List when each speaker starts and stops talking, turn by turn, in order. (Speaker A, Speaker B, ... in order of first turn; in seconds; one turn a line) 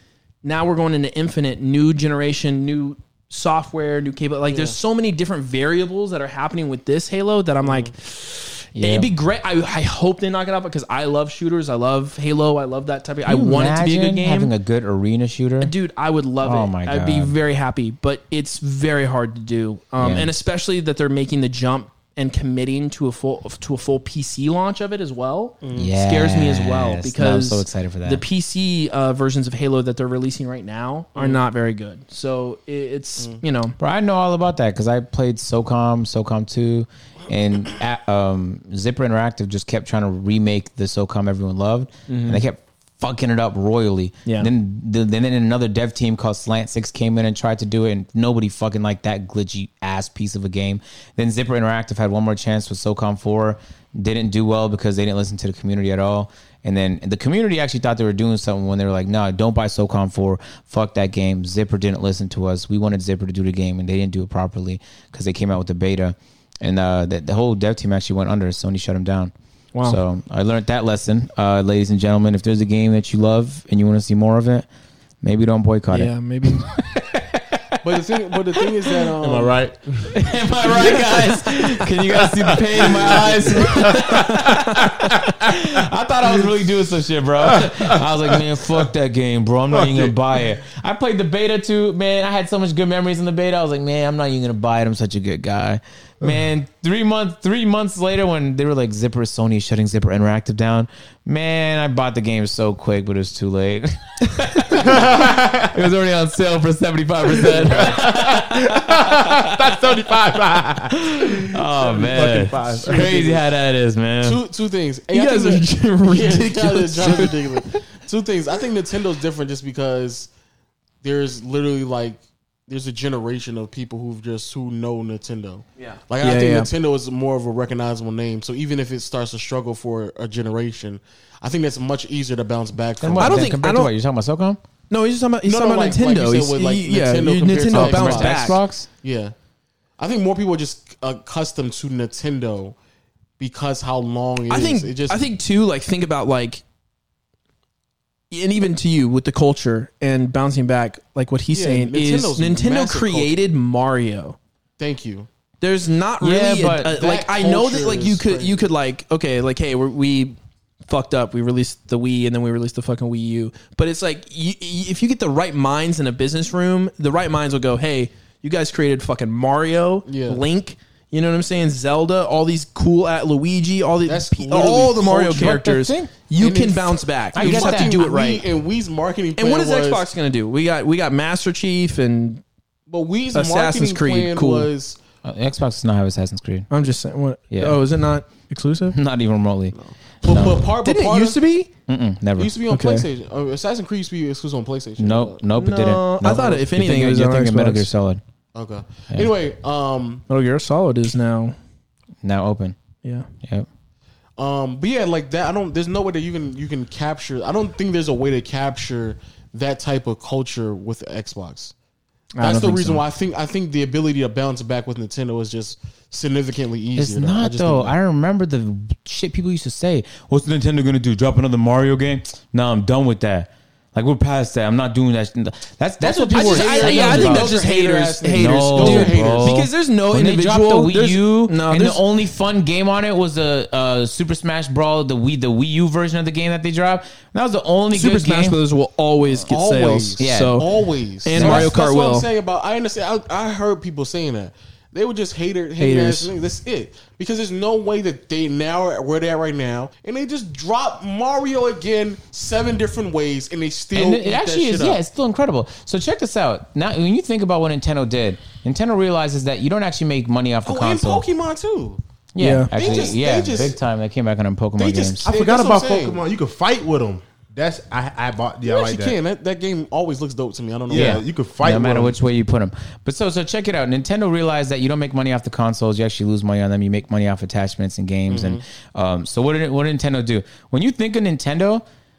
Speaker A: 0.4-14.5
Speaker B: 4.5-4.8
Speaker B: 7.6-7.9
Speaker C: 8.8-9.1
Speaker C: 13.2-15.7
Speaker A: 15.6-33.8
Speaker C: 16.4-17.3
Speaker C: 20.0-20.3
Speaker B: 25.6-25.9
Speaker C: 25.7-28.2
Speaker B: 31.1-31.4
Speaker C: 33.8-69.3
Speaker A: 42.1-42.4
Speaker A: 69.7-70.0
Speaker C: 69.8-74.7
Speaker C: 75.2-79.1
Speaker A: 75.9-76.7
Speaker B: 77.8-79.5
Speaker D: 79.2-86.5
Speaker C: 80.1-109.6
Speaker A: 84.3-84.5
Speaker D: 87.4-88.9
Speaker D: 89.7-90.4
Speaker D: 104.7-105.9
Speaker D: 107.3-113.4
Speaker C: 110.9-114.4
Speaker B: 114.2-120.3
Speaker A: 115.1-117.8
Speaker B: 121.0-133.5
Speaker A: 125.8-126.7
Speaker C: 133.0-134.6
Speaker A: 133.2-133.9
Speaker A: 134.9-138.6
Speaker B: 135.4-139.3
Speaker C: 137.7-138.9
Speaker B: 140.0-142.8
Speaker B: 143.4-145.2
Speaker A: 144.5-146.6
Speaker A: 148.3-154.4
Speaker B: 151.5-153.3
Speaker B: 154.8-155.3
Speaker A: 155.6-160.4
Speaker C: 156.2-156.9
Speaker B: 156.9-158.6
Speaker A: 160.9-178.4
Speaker B: 170.1-170.4
Speaker B: 174.1-175.6
Speaker C: 175.2-176.1
Speaker B: 176.4-180.1
Speaker C: 177.3-177.9
Speaker A: 179.4-182.4
Speaker B: 182.9-185.0
Speaker A: 183.3-184.7
Speaker C: 185.2-186.7
Speaker A: 186.7-188.9
Speaker C: 187.5-187.8
Speaker C: 188.9-190.6
Speaker B: 189.7-191.4
Speaker A: 190.8-191.7
Speaker C: 191.9-192.5
Speaker B: 192.4-195.4
Speaker A: 192.7-193.1
Speaker C: 195.0-198.2
Speaker A: 195.6-197.9
Speaker B: 198.5-200.2
Speaker A: 200.3-201.6
Speaker C: 202.2-202.8
Speaker C: 203.4-203.7
Speaker B: 204.4-211.7
Speaker A: 212.3-213.0
Speaker B: 212.4-217.9
Speaker C: 217.0-227.6
Speaker B: 226.0-229.6
Speaker A: 226.3-232.0
Speaker C: 228.3-238.6
Speaker A: 237.9-240.7
Speaker B: 239.4-255.0
Speaker C: 240.2-240.6
Speaker A: 241.2-242.3
Speaker C: 241.3-241.7
Speaker A: 245.8-246.3
Speaker C: 253.9-261.2
Speaker B: 260.6-262.0
Speaker C: 262.3-265.2
Speaker A: 262.4-262.7
Speaker B: 262.7-263.8
Speaker B: 264.8-266.2
Speaker D: 265.2-269.2
Speaker B: 268.6-271.2
Speaker D: 270.9-272.2
Speaker C: 270.9-281.8
Speaker B: 278.3-278.6